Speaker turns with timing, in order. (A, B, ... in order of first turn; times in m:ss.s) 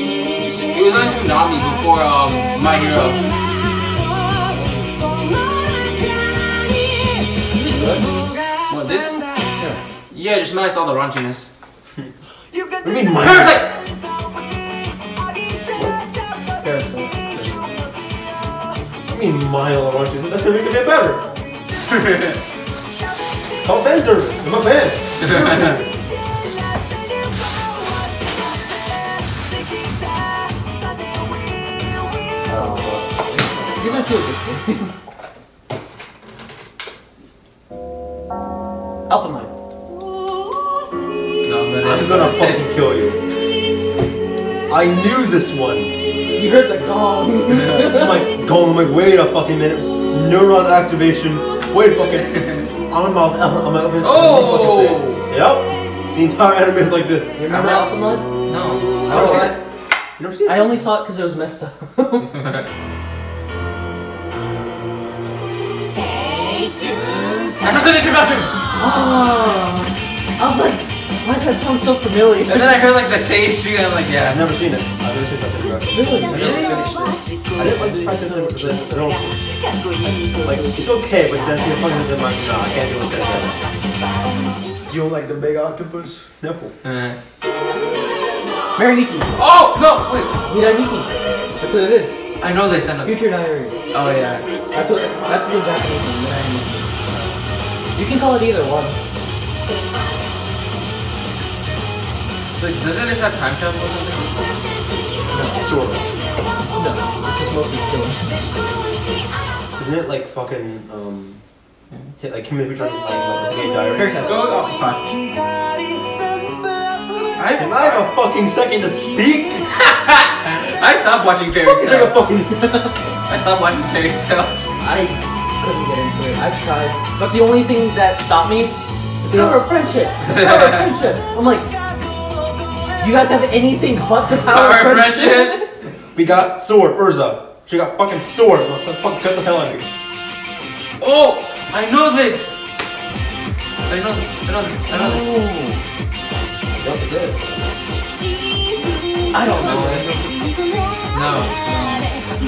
0:00.7-0:03.2 A
0:07.5-0:08.1 B
0:08.7-0:09.2 A
0:10.1-0:11.5 A
0:12.8-0:13.7 C
0:13.1-0:13.8 A
0:16.6-0:17.2 B
0:17.3-0:17.6 C
0:19.1-0:21.2 C
0:21.9-0:22.4 A
0:23.6-0:25.8 C
0:25.2-0:25.7 A
0:32.4-0:34.0 C
0:32.5-0:33.0 B
0:33.8-0:34.9 B
0:39.1-0:39.5 B
0:41.4-0:42.8 A
0:41.8-0:43.2 C
0:44.7-0:45.9 C
0:46.3-0:48.2 B
0:47.5-0:47.8 A
0:47.8-0:52.3 C
0:52.9-0:57.4 C
0:54.0-0:55.2 A
0:57.4-0:58.3 B
0:57.5-0:59.6 A
0:59.1-0:59.6 B
0:59.1-0:59.5 C
1:00.2-1:00.8 C
1:00.4-1:02.3 B
1:02.3-1:02.6 A
1:07.6-1:08.5 A
1:08.7-1:12.9 B
1:12.5-1:14.4 A
1:14.2-1:16.8 C
1:15.9-1:16.6 B
1:16.3-1:17.0 A
1:16.3-1:16.8 D
1:17.5-1:19.3 C
1:20.4-1:23.6 C
1:24.9-1:26.3 D
1:26.4-1:26.7 C
1:26.8-1:27.2 A
1:28.8-1:29.3 B
1:29.4-1:30.3 A
1:30.5-1:32.2 B
1:32.4-1:33.2 A
1:33.0-1:33.8 B
1:33.9-1:34.4 A
1:34.7-1:36.8 B
1:37.9-1:39.0 B
1:42.6-1:44.4 A
1:45.3-1:45.6 B
1:45.5-1:46.1 C
1:46.7-1:48.3 B
1:49.8-1:51.4 C
1:52.2-1:54.3 C
1:53.9-1:54.3 B
1:54.2-1:55.0 A
1:57.4-1:58.1 A
1:57.5-1:59.6 C
1:59.7-2:02.2 A
2:01.6-2:02.7 C
2:02.5-2:02.9 B
2:03.3-2:04.6 A
2:04.8-2:11.7 B
2:10.2-2:10.9 A
2:13.0-2:15.7 B
2:14.3-2:15.6 A
2:16.1-2:19.9 C
2:21.0-2:22.5 A
2:23.9-2:25.3 A
2:24.9-2:25.8 B
2:26.7-2:27.4 C
2:29.3-2:30.4 B
2:29.5-2:30.0 A
2:31.1-2:31.5 A
2:31.6-2:32.1 B